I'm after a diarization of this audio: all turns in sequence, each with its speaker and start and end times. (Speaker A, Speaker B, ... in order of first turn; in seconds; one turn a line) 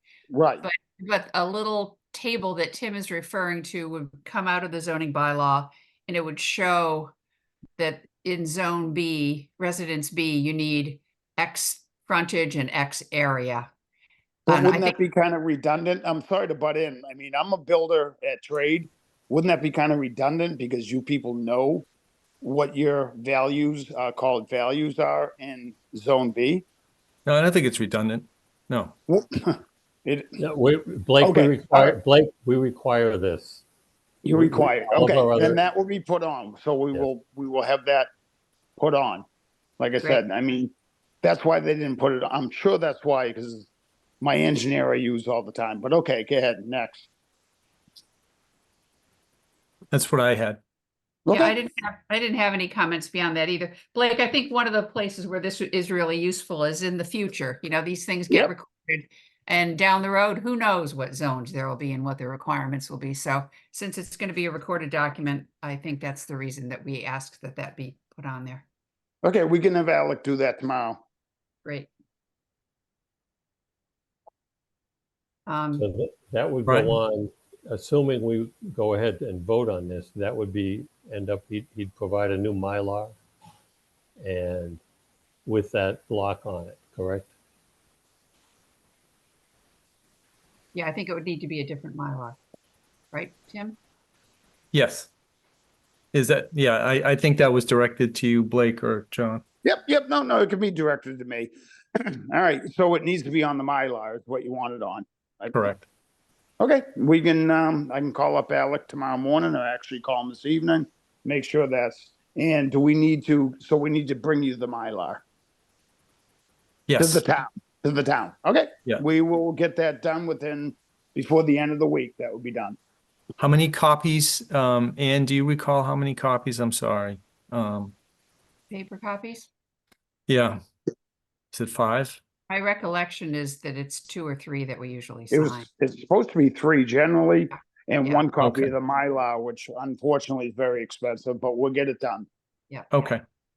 Speaker A: 0.3-0.7
Speaker B: 0.6-7.1
Speaker B: 7.8-13.7
Speaker A: 14.5-21.9
Speaker B: 14.5-15.0
Speaker A: 22.4-26.6
Speaker C: 27.3-29.0
Speaker A: 29.1-30.4
Speaker D: 30.4-33.6
Speaker A: 31.2-31.9
Speaker A: 34.2-38.1
Speaker D: 34.3-35.6
Speaker A: 38.8-39.3
Speaker A: 39.8-43.7
Speaker A: 44.2-47.1
Speaker C: 49.9-50.6
Speaker A: 51.3-51.5
Speaker B: 51.3-68.7
Speaker A: 69.2-71.0
Speaker B: 75.5-75.9
Speaker D: 75.8-83.2
Speaker C: 76.7-77.0
Speaker D: 84.2-84.8
Speaker D: 85.5-87.3
Speaker B: 90.7-92.4
Speaker B: 93.1-93.8
Speaker C: 94.7-95.1
Speaker C: 96.1-99.4
Speaker A: 99.7-105.7
Speaker C: 105.5-105.8
Speaker A: 106.6-115.2
Speaker C: 116.9-117.2
Speaker A: 117.0-122.8
Speaker C: 123.4-128.0
Speaker B: 128.7-129.5
Speaker C: 130.3-130.6
Speaker C: 131.5-132.2
Speaker B: 132.5-135.7
Speaker A: 135.3-142.3
Speaker C: 138.4-138.7
Speaker C: 142.9-143.2